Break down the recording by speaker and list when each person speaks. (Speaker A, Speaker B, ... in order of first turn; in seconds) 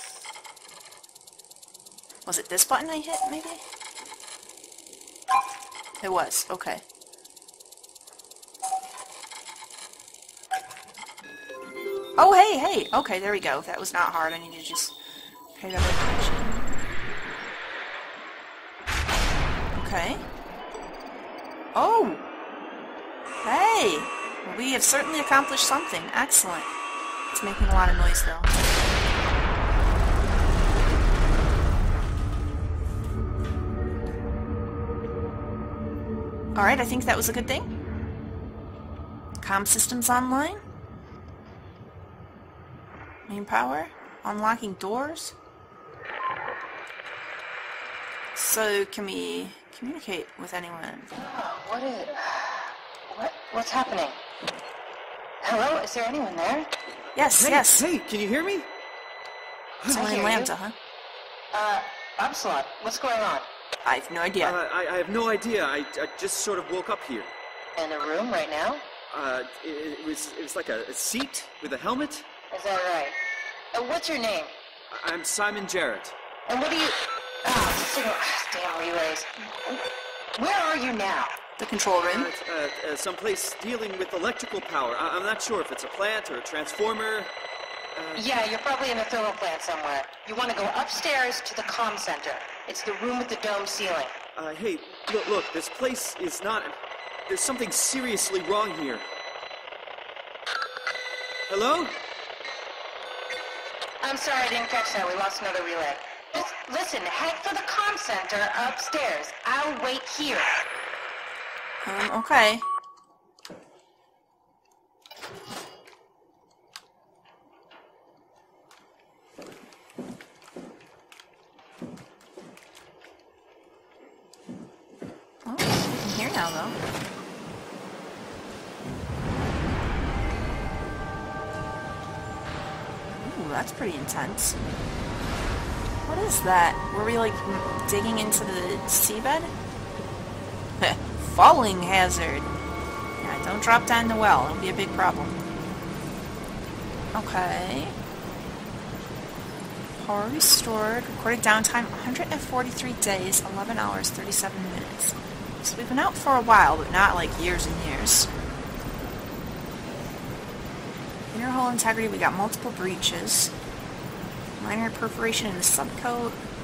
Speaker A: 2.2-3.6, 6.0-6.8, 12.2-14.9, 15.6-16.6, 19.7-20.2, 21.7-22.2, 23.4-26.7, 27.3-28.5, 36.5-37.7, 39.4-40.6, 43.3-45.3, 48.3-51.1, 57.1-57.9, 59.9-60.8, 63.8-64.5, 81.6-82.3, 111.8-112.7, 125.4-126.8, 133.1-134.6, 136.1-139.5, 140.8-142.5, 143.2-145.3, 147.1-147.9, 150.0-158.3, 161.3-163.5, 164.6-166.4
Speaker B: 51.1-54.2, 55.4-56.7, 59.9-60.5, 61.5-63.5, 67.8-68.9, 72.5-73.2, 73.7-74.5, 76.5-81.4, 88.1-94.1, 104.0-110.6
Speaker C: 57.1-58.7, 64.4-67.3, 69.1-72.2, 74.9-76.1, 82.1-87.3, 87.9-88.2, 94.3-96.7, 97.3-99.1, 101.5-102.0